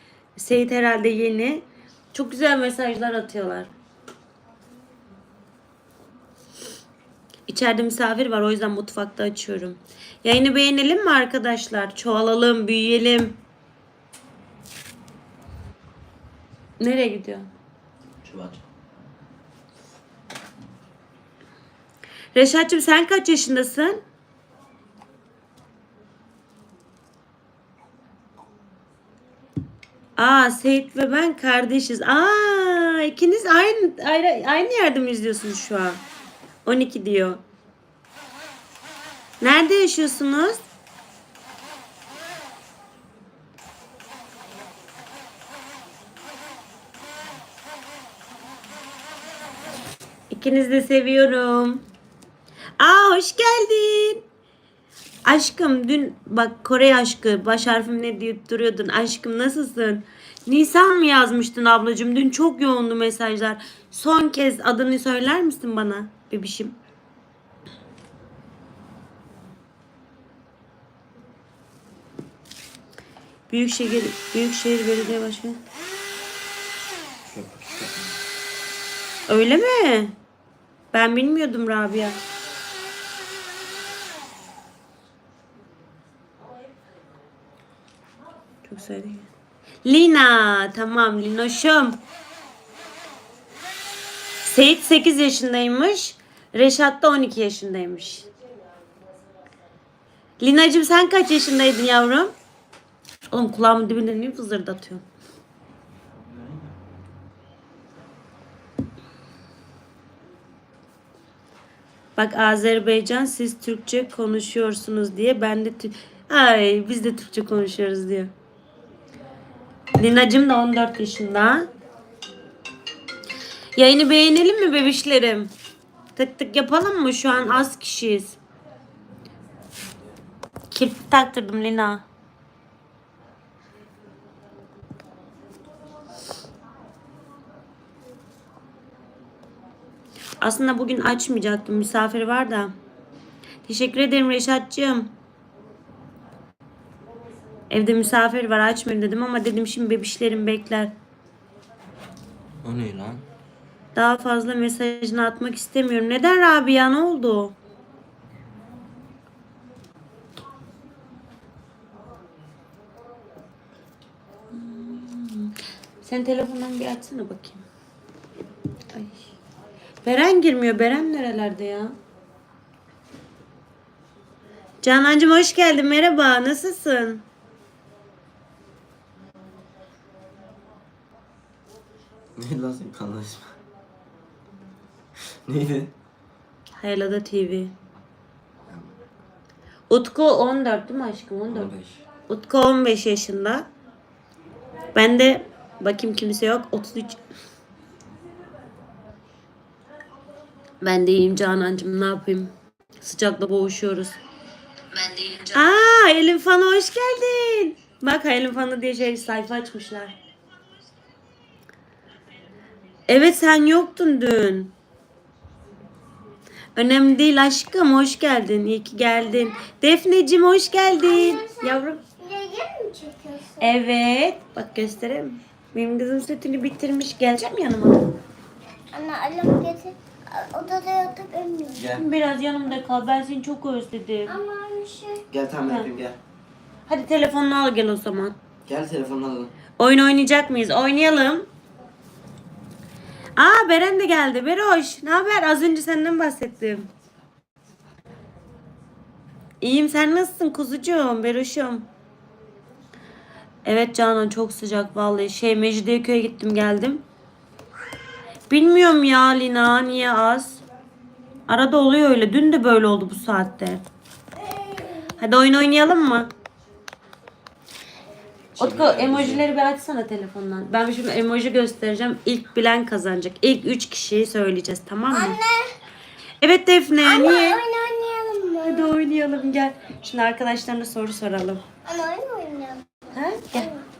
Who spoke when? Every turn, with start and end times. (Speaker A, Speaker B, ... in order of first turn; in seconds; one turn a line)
Speaker A: 0.3-3.7
Speaker A: 7.5-13.4
Speaker A: 16.8-17.5
Speaker B: 18.2-18.6
Speaker A: 22.3-24.0
Speaker A: 30.2-36.0
Speaker A: 36.6-37.4
Speaker A: 39.4-40.6
Speaker A: 50.3-51.8
Speaker A: 52.8-54.2
Speaker A: 55.2-66.8
Speaker A: 73.5-75.6
Speaker B: 77.3-78.2
Speaker A: 79.3-80.1
Speaker A: 80.9-82.2
Speaker A: 88.6-89.3
Speaker A: 89.8-92.0
Speaker A: 94.4-98.3
Speaker A: 100.4-102.3
Speaker A: 103.3-105.0
Speaker B: 106.2-106.7
Speaker A: 112.2-118.3
Speaker A: 120.0-121.7
Speaker A: 123.8-125.5
Speaker A: 126.2-128.4
Speaker A: 130.7-132.0
Speaker A: 140.4-142.7
Speaker A: 143.7-145.1
Speaker A: 147.7-150.9
Speaker B: 152.6-153.2
Speaker A: 153.9-157.5
Speaker A: 164.5-167.6
Speaker A: 168.9-169.2
Speaker A: 170.0-171.9
Speaker A: 174.8-177.2
Speaker B: 182.3-183.5
Speaker B: 185.4-185.9
Speaker A: 186.8-187.7
Speaker A: 189.9-191.7
Speaker B: 191.5-192.0
Speaker A: 192.3-193.7
Speaker A: 194.9-197.2
Speaker A: 200.8-204.2
Speaker A: 204.9-210.1
Speaker A: 213.1-214.7
Speaker A: 216.7-222.0
Speaker C: 221.0-223.7
Speaker A: 223.6-228.1
Speaker C: 228.9-231.8
Speaker B: 231.8-232.0
Speaker A: 231.9-234.4
Speaker C: 234.3-235.2
Speaker B: 235.3-236.2
Speaker A: 235.6-235.9
Speaker A: 236.9-238.4
Speaker B: 238.7-239.5
Speaker A: 239.8-241.5
Speaker A: 243.4-246.9
Speaker A: 249.6-251.9
Speaker A: 253.6-257.0
Speaker A: 258.5-260.6
Speaker A: 261.5-263.8
Speaker A: 265.2-266.3
Speaker A: 268.6-275.4
Speaker B: 268.6-269.4
Speaker C: 275.1-275.7
Speaker A: 276.4-277.6
Speaker C: 277.0-278.9
Speaker A: 278.6-281.6
Speaker C: 281.9-282.9
Speaker A: 283.1-283.7
Speaker C: 283.5-283.8